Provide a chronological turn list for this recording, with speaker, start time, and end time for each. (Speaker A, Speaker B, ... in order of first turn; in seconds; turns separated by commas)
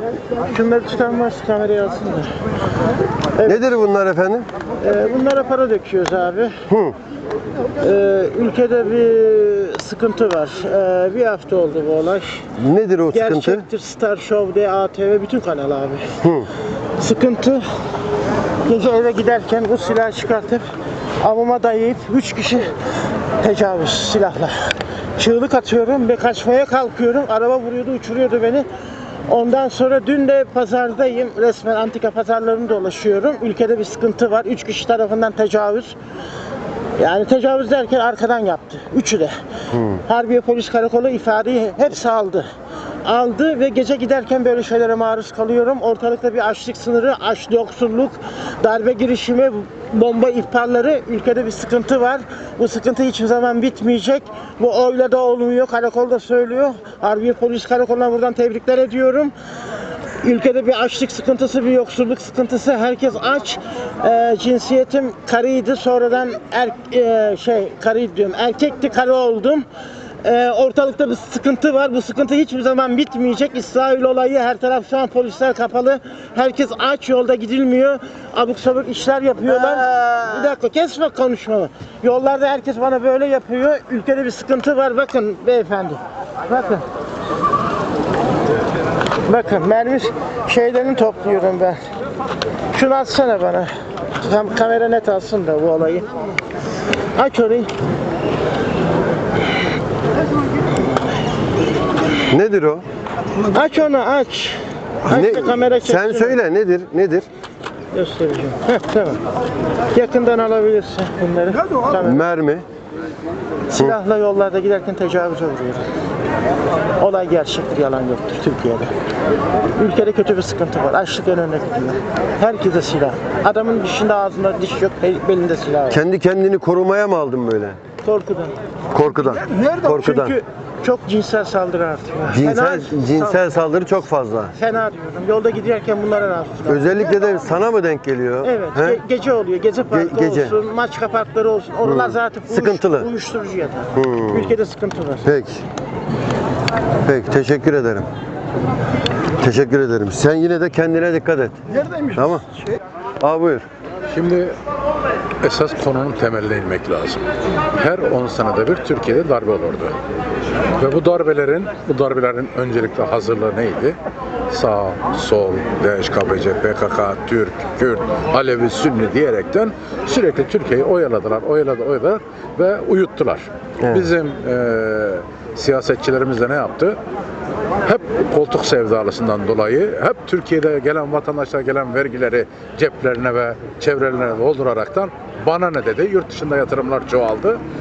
Speaker A: 0.4-2.3, Speaker A: 3.4-3.8, Speaker B: 3.4-4.5, Speaker A: 4.8-6.5, Speaker B: 6.7-6.9, Speaker A: 7.8-12.4, Speaker B: 12.6-13.7, Speaker A: 13.1-16.1, Speaker B: 16.2-16.5, Speaker A: 17.0-17.6, Speaker A: 18.6-20.6, Speaker A: 21.2-22.7, Speaker A: 23.4-24.5, Speaker A: 25.1-28.7, Speaker A: 29.3-36.0, Speaker A: 37.0-39.3, Speaker B: 39.7-40.0, Speaker A: 40.0-42.5, Speaker A: 43.0-59.3, Speaker A: 60.2-69.7, Speaker A: 70.2-86.8, Speaker A: 89.2-91.8, Speaker A: 92.7-96.1, Speaker A: 97.2-97.7, Speaker B: 102.3-102.8, Speaker A: 103.5-106.4, Speaker B: 105.1-107.2, Speaker A: 107.9-109.2, Speaker A: 109.9-112.2, Speaker B: 112.0-112.6, Speaker A: 113.7-115.8, Speaker A: 117.0-118.9, Speaker A: 119.8-126.0, Speaker B: 125.9-127.8, Speaker A: 128.0-128.5, Speaker B: 128.9-130.3, Speaker A: 129.8-133.4, Speaker B: 132.3-134.5, Speaker A: 134.5-136.9, Speaker B: 136.7-139.0, Speaker A: 138.4-145.3, Speaker B: 139.9-140.5, Speaker B: 141.8-143.1, Speaker B: 143.9-144.5, Speaker B: 145.2-145.6, Speaker B: 147.1-148.1, Speaker B: 149.4-152.4, Speaker B: 153.2-153.6, Speaker C: 154.1-154.5, Speaker C: 155.4-159.9, Speaker C: 160.8-164.0, Speaker C: 164.5-177.0, Speaker B: 173.8-174.1, Speaker C: 177.8-187.6